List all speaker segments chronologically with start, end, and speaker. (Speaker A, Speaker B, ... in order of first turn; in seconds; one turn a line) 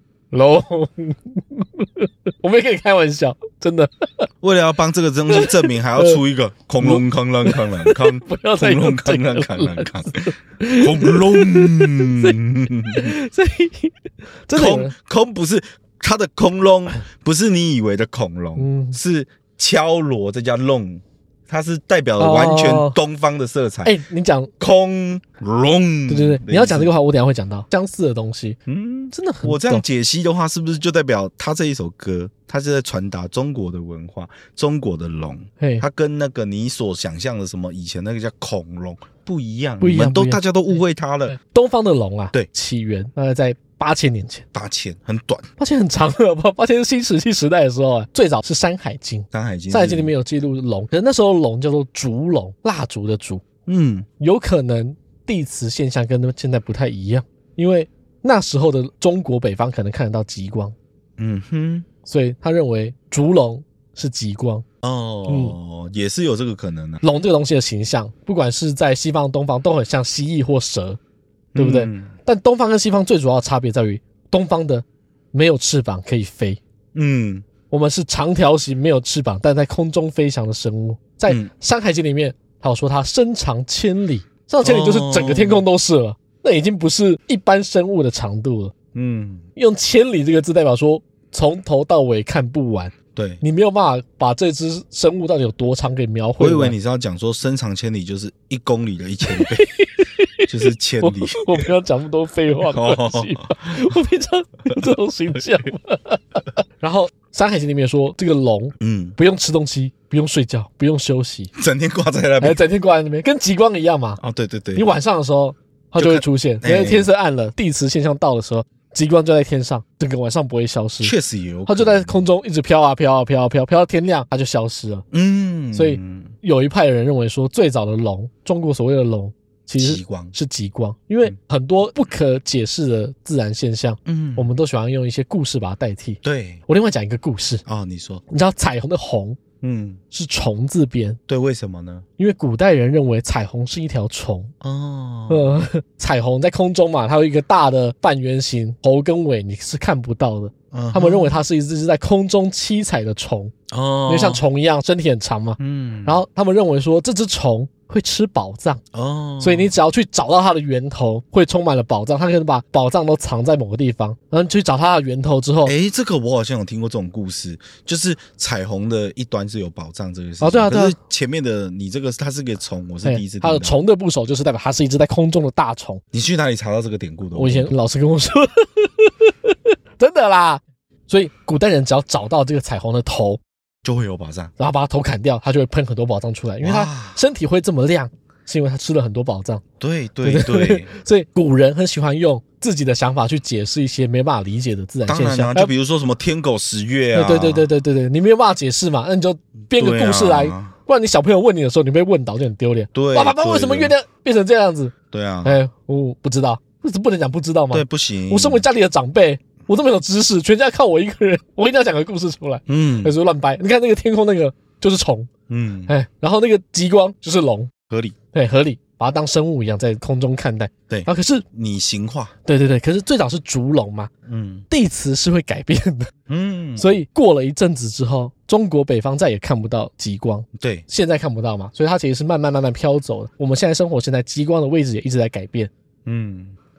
Speaker A: 0.3-4.3
Speaker B: 4.4-13.1
Speaker A: 5.3-6.2
Speaker A: 6.8-12.4
Speaker A: 12.9-14.0
Speaker A: 14.5-14.9
Speaker B: 14.5-23.9
Speaker A: 18.6-19.0
Speaker A: 22.2-23.0
Speaker A: 23.9-24.5
Speaker B: 24.6-26.9
Speaker A: 26.1-28.6
Speaker B: 28.7-41.4
Speaker A: 29.1-29.8
Speaker A: 35.6-35.9
Speaker A: 39.8-40.4
Speaker A: 41.3-44.5
Speaker B: 44.5-45.5
Speaker A: 45.6-53.4
Speaker B: 49.3-50.1
Speaker B: 53.7-54.1
Speaker A: 54.2-60.8
Speaker B: 61.2-61.9
Speaker A: 62.0-64.7
Speaker B: 64.8-67.0
Speaker A: 65.3-65.5
Speaker A: 67.0-71.0
Speaker B: 71.5-72.1
Speaker A: 71.6-76.6
Speaker B: 77.0-77.5
Speaker A: 77.7-88.7
Speaker B: 84.6-85.6
Speaker B: 88.9-89.5
Speaker A: 89.6-96.8
Speaker B: 93.2-93.4
Speaker B: 96.4-99.7
Speaker A: 99.3-111.5
Speaker B: 100.5-101.7
Speaker B: 102.6-103.9
Speaker B: 108.8-109.2
Speaker B: 111.5-112.6
Speaker A: 112.4-114.2
Speaker B: 114.2-114.9
Speaker A: 114.8-121.1
Speaker B: 116.0-117.1
Speaker B: 121.0-122.2
Speaker A: 121.7-125.0
Speaker B: 125.1-126.3
Speaker A: 125.7-137.6
Speaker B: 129.8-130.3
Speaker B: 134.1-134.5
Speaker B: 136.2-136.6
Speaker B: 137.7-138.2
Speaker A: 138.3-139.4
Speaker B: 139.6-140.0
Speaker A: 140.1-141.2
Speaker B: 141.3-142.1
Speaker A: 142.2-144.5
Speaker B: 144.6-145.6
Speaker A: 145.3-153.5
Speaker B: 150.7-151.4
Speaker B: 153.7-154.4
Speaker A: 154.1-158.8
Speaker B: 155.6-156.2
Speaker B: 158.9-159.7
Speaker A: 159.4-165.7
Speaker B: 165.6-173.8
Speaker A: 170.4-171.0
Speaker A: 173.0-176.0
Speaker B: 176.1-177.7
Speaker A: 177.3-183.4
Speaker B: 183.8-184.5
Speaker A: 184.6-189.6
Speaker B: 186.6-187.2
Speaker B: 189.8-190.9
Speaker A: 190.2-195.7
Speaker B: 195.1-197.7
Speaker A: 197.1-204.9
Speaker B: 199.7-200.7
Speaker B: 202.9-203.9
Speaker B: 205.1-205.6
Speaker A: 205.4-215.3
Speaker B: 207.7-208.6
Speaker B: 212.7-213.1
Speaker B: 215.5-215.9
Speaker A: 215.9-217.7
Speaker B: 217.9-218.2
Speaker A: 218.3-221.4
Speaker B: 220.9-222.3
Speaker A: 222.4-224.1
Speaker B: 224.3-224.7
Speaker A: 224.7-226.1
Speaker B: 226.3-227.0
Speaker A: 226.8-235.7
Speaker B: 230.6-230.8
Speaker B: 236.1-236.6